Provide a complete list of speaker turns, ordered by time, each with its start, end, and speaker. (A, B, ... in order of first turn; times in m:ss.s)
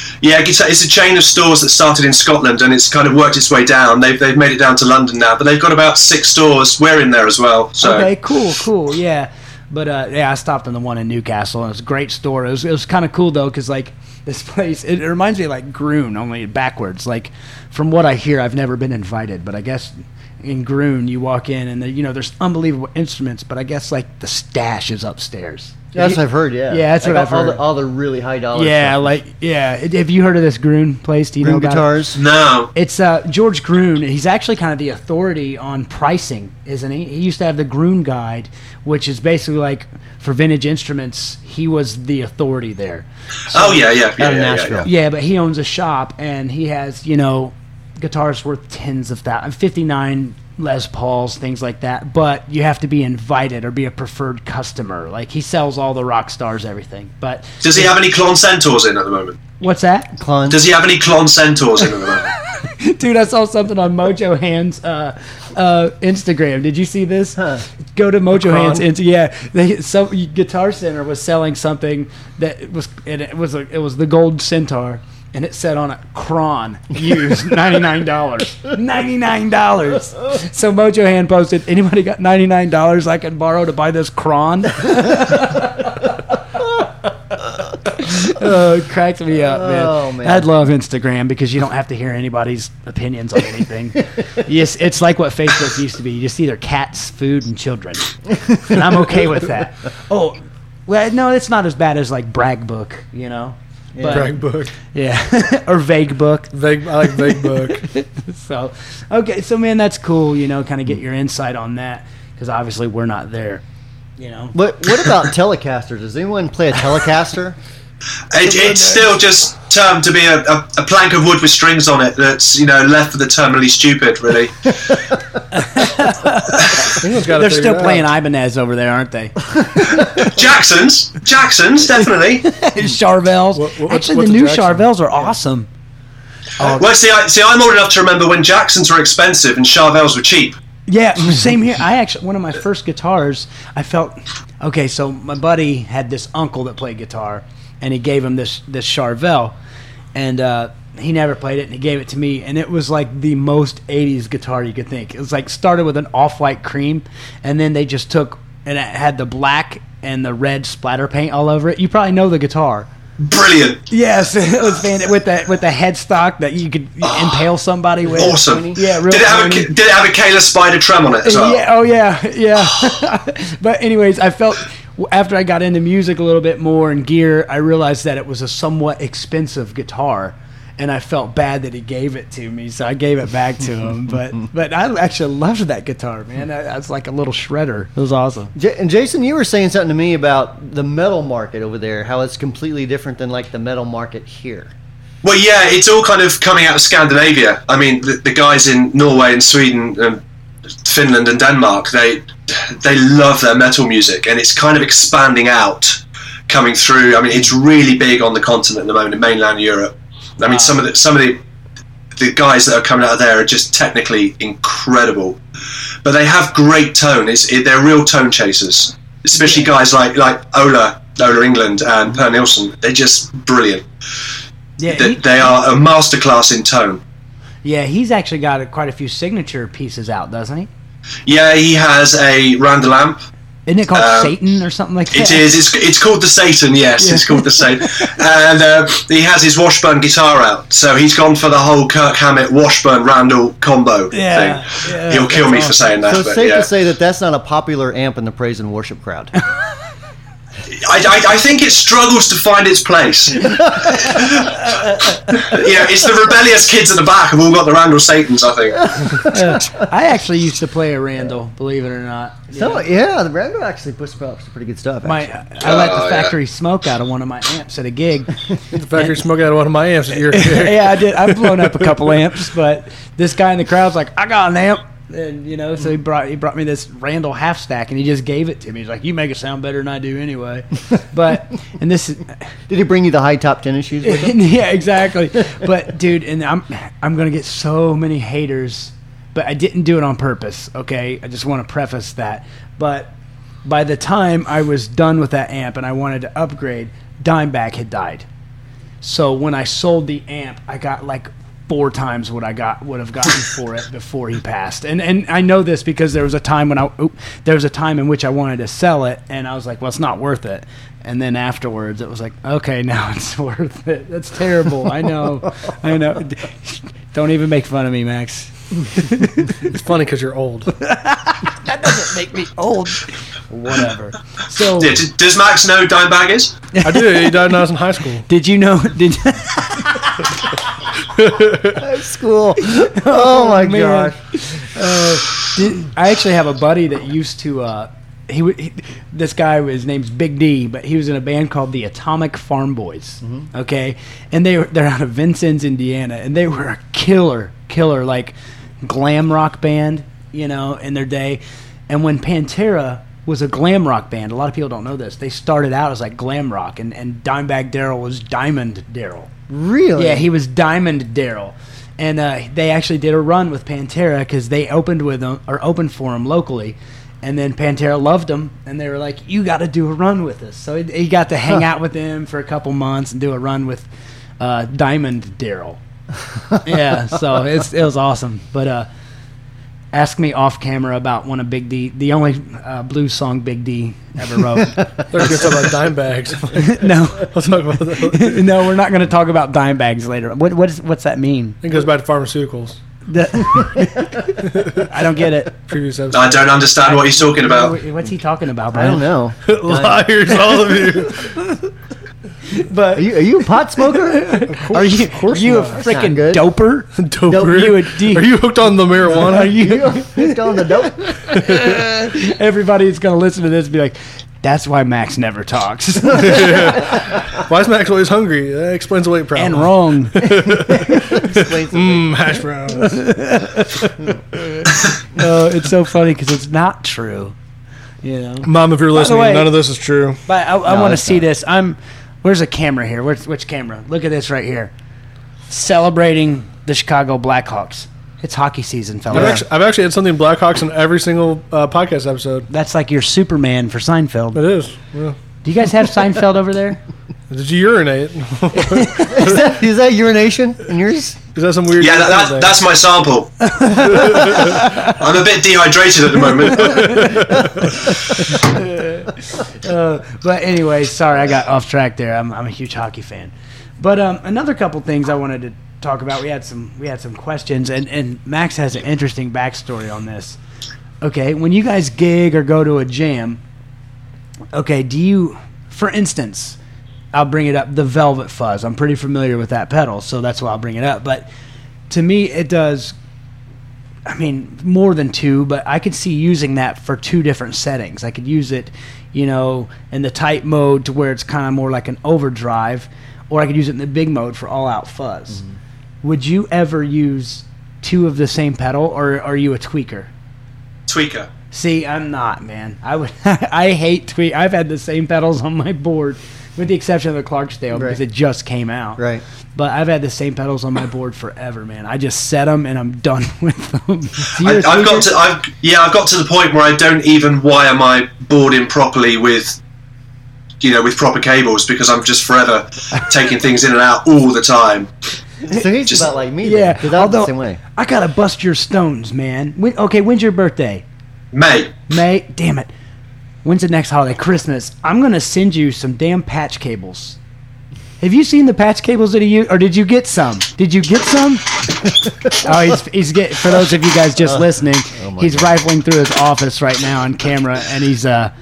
0:00.2-0:08.1 A
0:07.8-0:27.6 B
0:25.9-0:29.1 C
0:28.5-0:31.9 B
0:31.4-0:32.2 C
0:32.2-0:32.7 A
0:32.7-0:43.8 B
0:43.5-0:44.8 A
0:44.2-0:44.9 C
0:44.8-0:57.9 B
0:57.6-0:59.4 A
0:59.6-1:00.2 B
1:00.2-1:00.6 C
1:00.5-1:02.3 A
1:02.3-1:26.1 B
1:08.4-1:08.8 D
1:27.9-1:44.3 B
1:29.3-1:30.5 C
1:43.9-1:44.3 C
1:44.1-1:44.7 D
1:44.9-1:53.6 B
1:46.5-1:47.8 D
1:54.2-1:54.5 B
1:54.5-1:57.6 C
1:58.3-2:05.0 A
2:05.5-2:10.3 B
2:06.8-2:08.1 D
2:10.0-2:12.5 A
2:12.4-2:15.7 B
2:13.5-2:14.9 D
2:16.6-2:16.8 B
2:16.6-2:20.6 A
2:20.9-2:29.5 B
2:30.1-2:42.9 B
2:43.2-2:43.8 A
2:43.9-2:49.7 B
2:47.0-2:47.4 A
2:48.1-2:48.8 C
2:48.1-2:51.6 A
2:51.2-3:08.5 B
3:08.5-3:14.7 C
3:15.2-3:20.2 A
3:20.8-3:31.4 A
3:30.4-3:30.8 B
3:32.2-3:35.4 A
3:36.0-3:43.8 A
3:39.3-3:39.7 B
3:44.8-3:45.3 B
3:44.9-3:47.0 A
3:47.6-3:50.7 B
3:51.2-3:53.2 A
3:53.7-3:55.5 B
3:53.9-3:54.3 A
3:55.1-4:06.7 A
3:57.0-3:58.1 B
4:04.1-4:05.9 B
4:06.0-4:09.3 C
4:10.7-4:19.2 A
4:13.6-4:14.0 C
4:18.8-4:19.8 C
4:19.2-4:22.8 B
4:22.5-4:25.3 C
4:25.0-4:28.4 B
4:25.6-4:26.3 A
4:28.7-4:32.1 D
4:30.3-4:42.4 B
4:42.7-4:44.4 C
4:44.0-4:53.1 B
4:53.6-4:58.2 B
4:59.0-5:19.6 B
5:19.6-5:20.7 D
5:20.8-5:25.0 B
5:24.8-5:26.6 A
5:26.8-5:27.3 B
5:26.8-5:28.2 D
5:28.3-5:30.5 B
5:31.0-5:31.8 D
5:31.7-5:34.2 C
5:32.6-5:59.3 B
5:43.2-5:43.5 C
5:59.5-6:00.3 C
6:00.0-6:13.9 B
6:14.4-6:15.8 B
6:16.6-6:18.9 B
6:19.9-6:25.5 B
6:25.1-6:28.4 D
6:26.5-6:27.3 B
6:28.0-6:31.6 B
6:31.6-6:32.8 D
6:33.1-6:35.6 B
6:34.4-6:34.9 D
6:35.7-6:36.6 D
6:36.1-6:37.7 A
6:36.8-6:39.1 B
6:38.7-6:40.0 C
6:39.5-6:41.4 D
6:41.0-6:41.6 B
6:42.5-6:43.2 B
6:42.9-6:44.4 C
6:43.8-6:48.3 B
6:44.4-6:45.8 D
6:45.3-6:46.4 C
6:47.0-6:49.6 D
6:49.2-6:56.8 B
6:49.4-6:51.3 C
6:51.3-6:51.7 D
6:56.1-7:03.2 D
6:59.3-7:00.2 B
7:00.8-7:02.2 C
7:02.7-7:07.3 B
7:08.0-7:09.5 B
7:08.4-7:10.2 D
7:10.2-7:14.7 B
7:10.6-7:11.2 C
7:15.5-7:19.4 B
7:19.1-7:19.4 C
7:19.1-7:22.5 D
7:22.5-7:24.4 B
7:24.3-7:25.2 D
7:25.4-7:26.8 B
7:27.3-7:29.5 D
7:28.7-7:29.2 B
7:29.1-7:31.2 C
7:31.3-7:32.5 D
7:31.8-7:33.5 A
7:33.4-7:35.0 B
7:33.8-7:34.6 D
7:34.4-7:37.1 A
7:36.4-7:50.4 B
7:36.5-7:37.8 D
7:51.0-7:53.4 B
7:54.5-7:56.6 B
7:57.1-8:01.3 B
8:01.9-8:02.9 B
8:04.0-8:15.4 B
8:16.0-8:20.1 B
8:20.9-8:21.3 A
8:21.5-8:29.0 B
8:27.7-8:28.0 C
8:29.0-8:29.2 C
8:29.5-8:35.1 B
8:34.4-8:39.6 A
8:40.6-8:44.9 A
8:45.4-8:47.6 C
8:46.4-8:50.8 B
8:51.3-8:51.7 A
8:51.9-8:52.7 B
8:53.4-8:57.2 B
8:58.0-9:08.3 B
9:04.2-9:05.5 C